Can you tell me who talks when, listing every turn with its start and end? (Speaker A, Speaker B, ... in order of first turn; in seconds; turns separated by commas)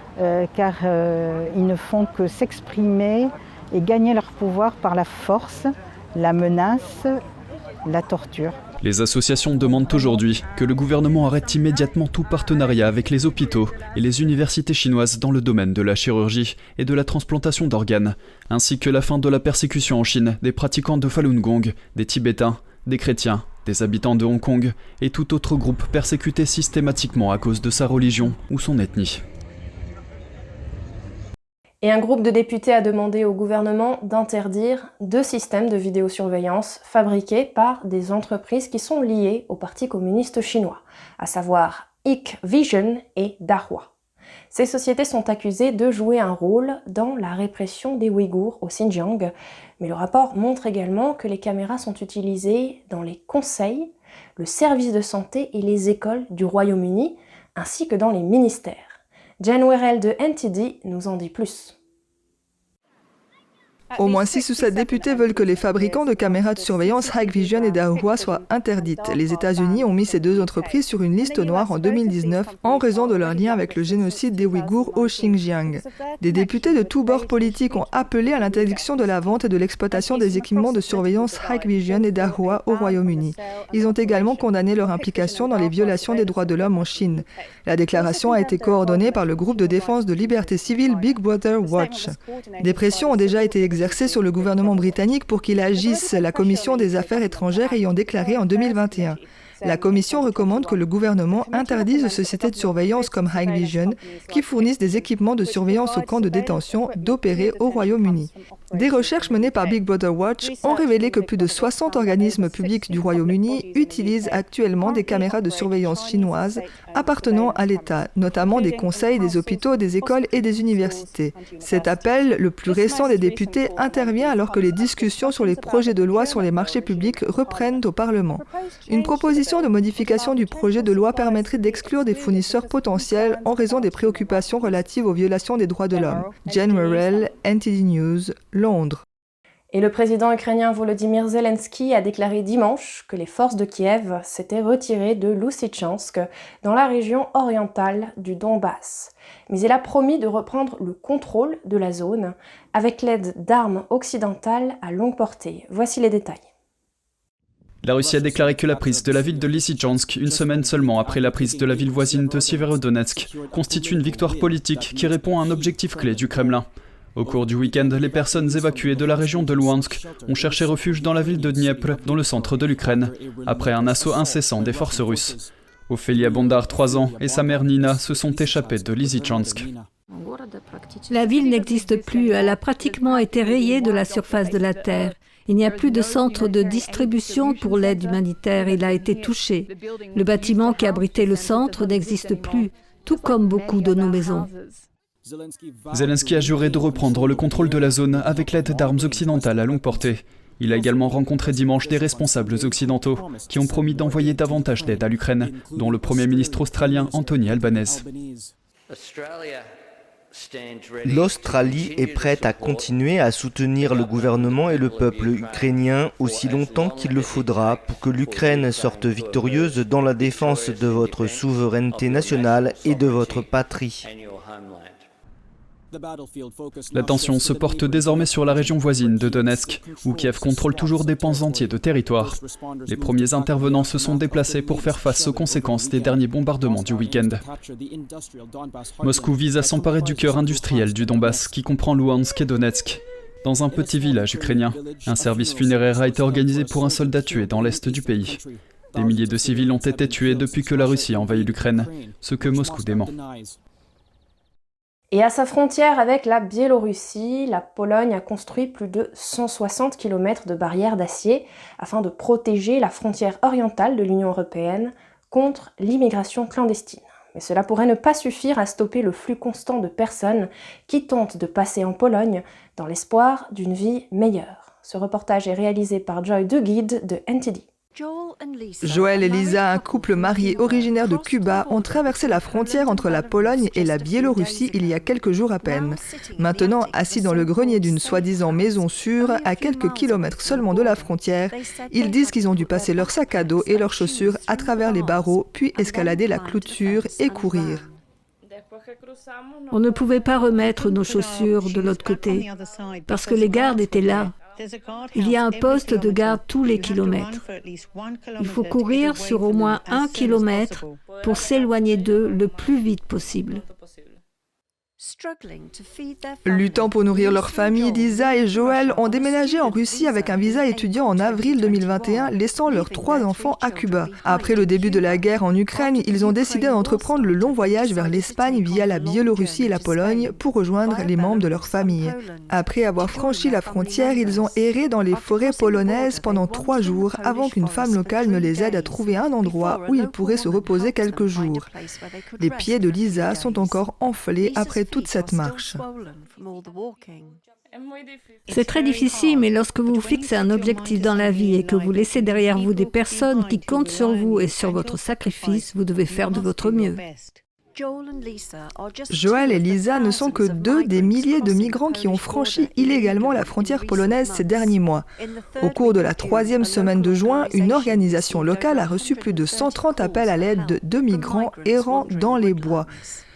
Speaker A: 0.2-7.2, Speaker A: 7.8-8.6, Speaker B: 8.8-29.2, Speaker C: 31.8-43.9, Speaker C: 44.5-61.8, Speaker D: 64.0-139.0, Speaker C: 139.7-156.5, Speaker B: 157.8-179.7, Speaker E: 181.1-194.5, Speaker B: 195.9-208.1, Speaker F: 211.0-224.1, Speaker B: 226.9-237.4, Speaker B: 239.0-248.4, Speaker B: 248.9-253.1, Speaker C: 255.1-277.6, Speaker D: 278.8-297.9, Speaker E: 299.7-302.5, Speaker E: 303.1-304.3, Speaker E: 305.1-307.4, Speaker E: 308.4-313.6, Speaker D: 316.4-341.7, Speaker D: 342.4-345.9, Speaker E: 348.5-357.0, Speaker D: 359.1-365.1, Speaker D: 365.6-372.9